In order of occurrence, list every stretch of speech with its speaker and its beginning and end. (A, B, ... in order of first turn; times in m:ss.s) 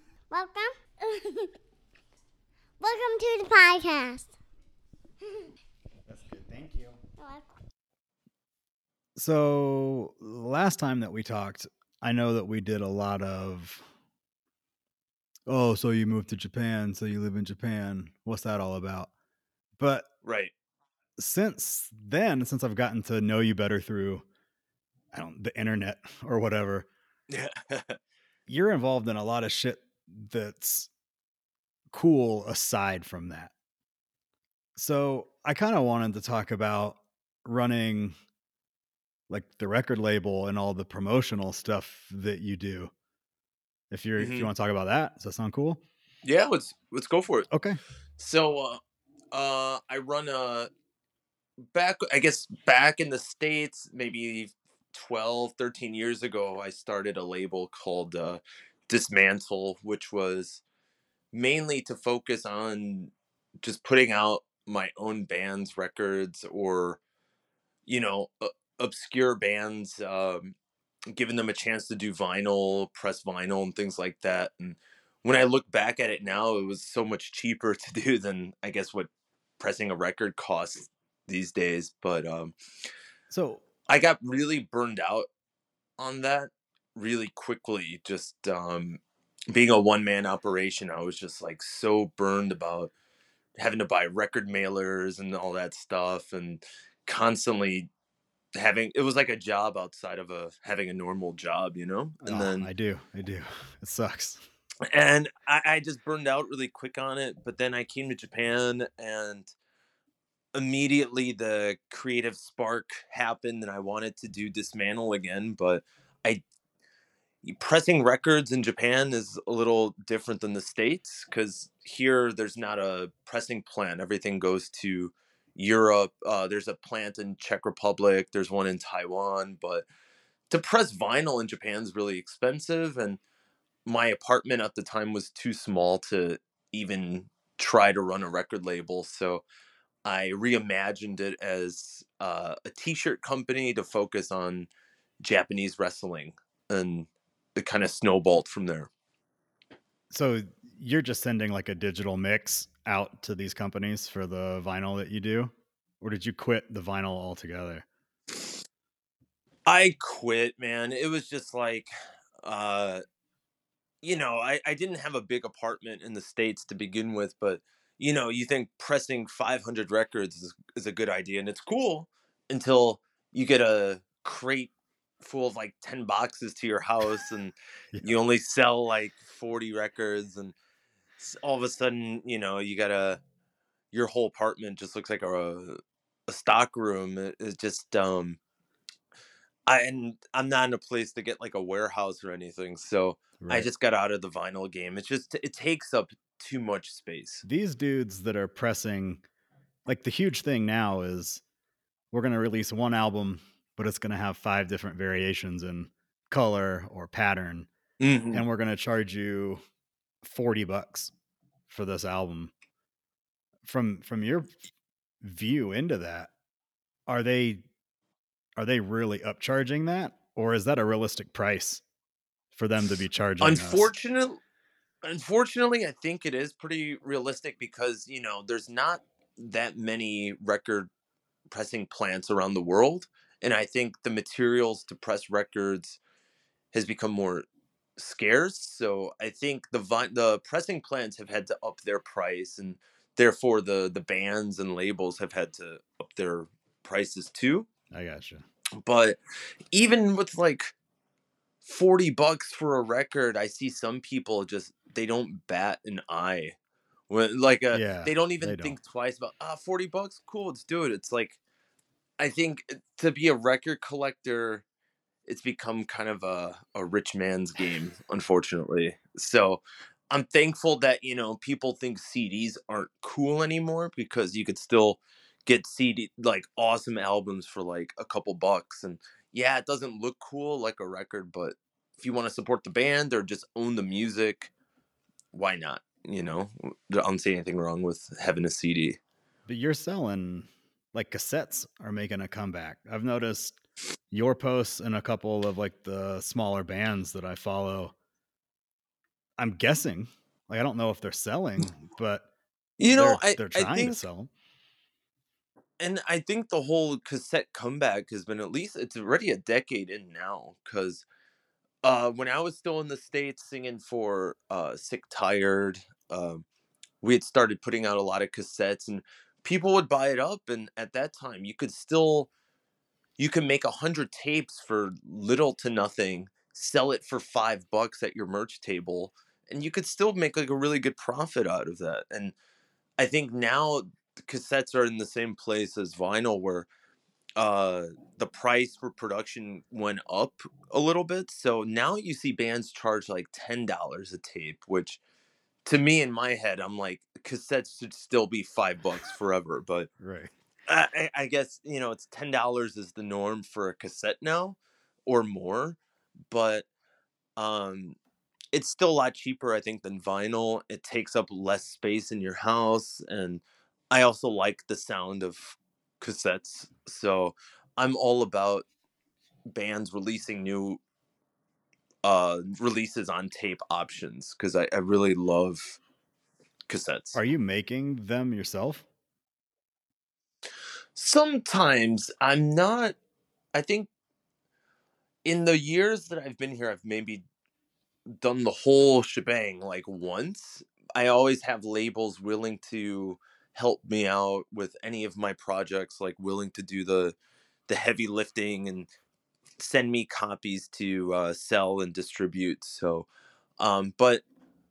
0:00.3-0:01.5 A
0:02.8-0:04.3 A
0:06.1-0:07.0 B
0:07.2-0:07.5 A
0:09.2-0:13.8 B
0:15.5-0:19.1 B
0:19.8-0:20.1 B
0:20.2-0:20.5 C
0:21.2-0:24.2 B
0:25.1-0:26.9 B
0:27.3-0:28.0 C
0:28.5-0:30.9 B
0:31.9-0:33.5 B
0:34.8-0:38.1 B
0:39.3-0:42.9 B
0:43.9-0:45.8 B
0:44.2-0:44.5 C
0:46.2-0:47.5 C
0:47.5-0:47.8 B
0:48.2-0:48.8 C
0:49.3-0:50.7 C
0:51.7-1:00.6 C
1:01.3-1:03.1 C
1:03.6-1:07.0 C
1:07.9-1:10.5 C
1:11.1-1:22.5 C
1:23.3-1:23.6 B
1:23.9-1:25.3 C
1:26.0-1:29.0 C
1:29.5-1:32.9 C
1:33.6-1:37.9 C
1:38.6-1:42.7 C
1:42.2-1:44.4 B
1:44.9-1:49.5 C
1:50.5-1:56.4 C
1:57.4-2:09.8 C
2:10.5-2:13.2 C
2:13.8-2:19.4 C
2:20.0-2:24.7 C
2:25.2-2:28.9 C
2:30.1-2:37.8 B
2:39.6-2:41.9 C
2:42.4-2:43.0 C
2:44.0-3:00.5 C
3:01.2-3:03.2 C
3:03.9-3:08.4 C
3:09.7-3:17.4 C
3:13.4-3:13.7 B
3:17.4-3:19.2 B
3:19.8-3:21.4 B
3:22.1-3:27.7 B
3:28.0-3:28.4 C
3:28.3-3:29.6 B
3:30.2-3:31.1 B
3:31.7-3:32.5 B
3:33.6-3:34.5 B
3:35.2-3:36.3 B
3:37.1-3:37.6 B
3:38.6-3:41.8 B
3:42.5-3:43.9 B
3:43.4-3:44.4 C
3:45.0-3:50.9 C
3:51.5-3:56.0 C
3:56.7-3:57.4 C
3:58.0-4:07.7 C
4:07.9-4:08.4 B
4:08.8-4:09.2 C
4:09.7-4:10.7 C
4:11.6-4:16.6 C
4:17.1-4:21.4 C
4:17.7-4:18.8 B
4:22.2-4:24.6 C
4:25.3-4:44.5 C
4:45.3-4:49.0 C
4:49.5-4:53.6 B
4:54.1-4:57.9 B
4:59.4-5:02.3 B
5:02.8-5:04.0 C
5:02.9-5:04.3 B
5:05.8-5:11.0 C
5:11.8-5:16.4 C
5:17.0-5:22.3 C
5:23.2-5:32.3 C
5:33.0-5:36.7 C
5:37.4-5:45.0 C
5:45.6-5:49.9 C
5:50.0-5:50.3 B
5:50.7-5:55.8 C
5:56.3-5:56.7 C
5:57.4-5:58.0 C
5:58.5-6:08.6 C
6:09.5-6:10.8 C
6:12.0-6:15.8 C
6:16.7-6:17.2 C
6:17.1-6:18.8 B
6:20.9-6:23.0 C
6:23.5-6:23.9 C
6:25.2-6:27.2 C
6:28.1-6:37.2 C
6:37.7-6:38.9 C
6:39.6-6:43.1 C
6:43.6-6:44.2 C